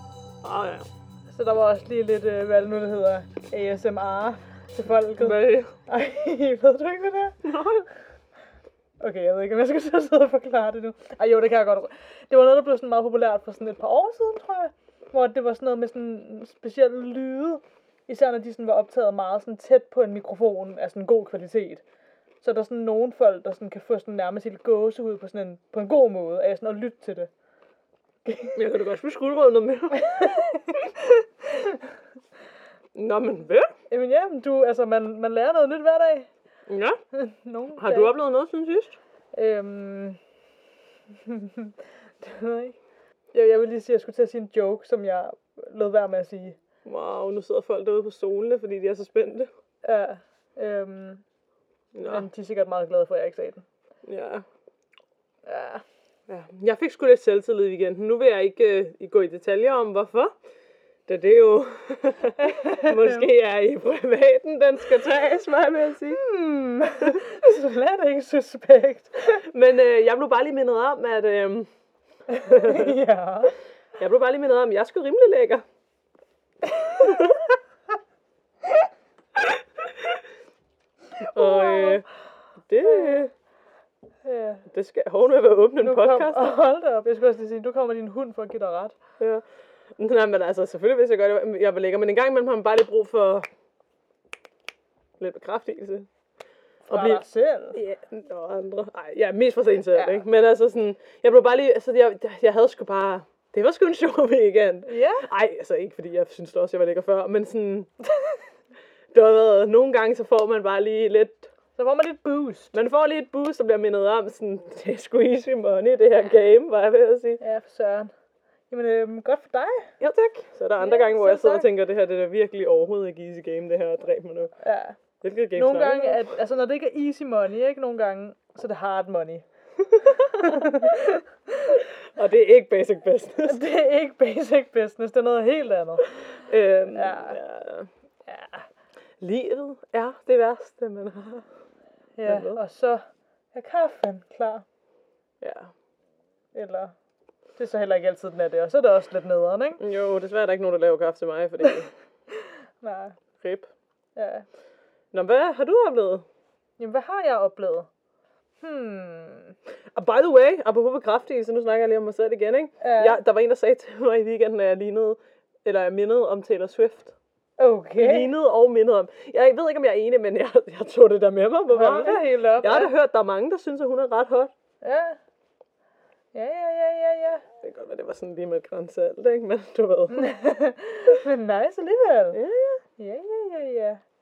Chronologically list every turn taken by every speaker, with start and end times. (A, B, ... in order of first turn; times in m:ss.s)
0:00.4-0:00.9 A
0:01.3-0:07.5 B
0:05.2-0:05.7 A
0:07.4-0:07.9 A
0:09.0-0:21.8 B
0:22.4-0:27.3 B
0:28.3-0:28.6 B
0:28.6-0:30.4 A
0:29.9-0:31.8 B
0:32.9-0:33.7 A
0:33.9-0:36.3 B
0:36.7-0:37.0 A
0:37.1-0:38.1 B
0:37.8-0:39.0 A
0:39.3-0:40.2 B
0:41.2-0:42.8 B
0:43.3-0:46.6 B
0:46.8-0:49.5 A
0:49.8-0:51.2 B
0:51.9-0:52.3 A
0:52.1-0:53.6 B
0:54.0-0:54.4 A
0:55.5-0:55.8 B
0:56.3-1:00.3 A
1:01.1-1:06.2 A
1:02.4-1:03.3 B
1:06.1-1:09.4 B
1:09.3-1:11.7 A
1:12.3-1:13.6 B
1:12.5-1:13.0 A
1:14.0-1:15.6 A
1:16.7-1:17.4 B
1:17.0-1:17.4 A
1:21.2-1:22.0 B
1:21.3-1:22.0 A
1:22.7-1:23.3 A
1:22.8-1:23.2 B
1:24.2-1:24.6 B
1:24.7-1:26.6 A
1:25.8-1:29.0 B
1:30.0-1:33.5 A
1:35.2-1:36.1 A
1:36.9-1:37.8 B
1:36.9-1:47.9 A
1:39.9-1:40.2 B
1:44.9-1:45.3 B
1:49.1-1:51.5 A
1:51.8-1:52.7 B
1:52.7-1:57.4 A
1:57.4-1:58.1 B
1:58.7-1:59.9 B
2:00.0-2:04.5 A
2:00.8-2:01.7 B
2:04.6-2:05.0 B
2:05.2-2:06.2 A
2:05.6-2:09.4 B
2:10.1-2:11.8 B
2:10.1-2:10.6 A
2:12.2-2:13.6 A
2:13.5-2:16.2 B
2:16.3-2:17.9 A
2:16.9-2:17.4 B
2:18.3-2:18.6 B
2:19.2-2:21.5 A
2:22.2-2:23.0 B
2:22.2-2:22.6 A
2:23.5-2:24.6 B
2:25.4-2:25.7 A
2:26.5-2:26.9 B
2:27.6-2:29.8 B
2:29.8-2:31.9 A
2:32.4-2:33.2 B
2:33.4-2:33.7 A
2:34.2-2:34.4 B
2:35.1-2:36.2 A
2:36.8-2:37.9 B
2:38.6-2:39.5 B
2:40.0-2:47.2 A
2:42.8-2:43.2 B
2:47.6-2:48.3 B
2:48.0-2:54.5 A
2:51.7-2:52.9 B
2:54.8-2:55.2 B
2:56.3-2:57.4 B
2:57.6-3:00.3 A
3:00.1-3:02.4 B
3:02.3-3:02.8 A
3:03.0-3:04.0 B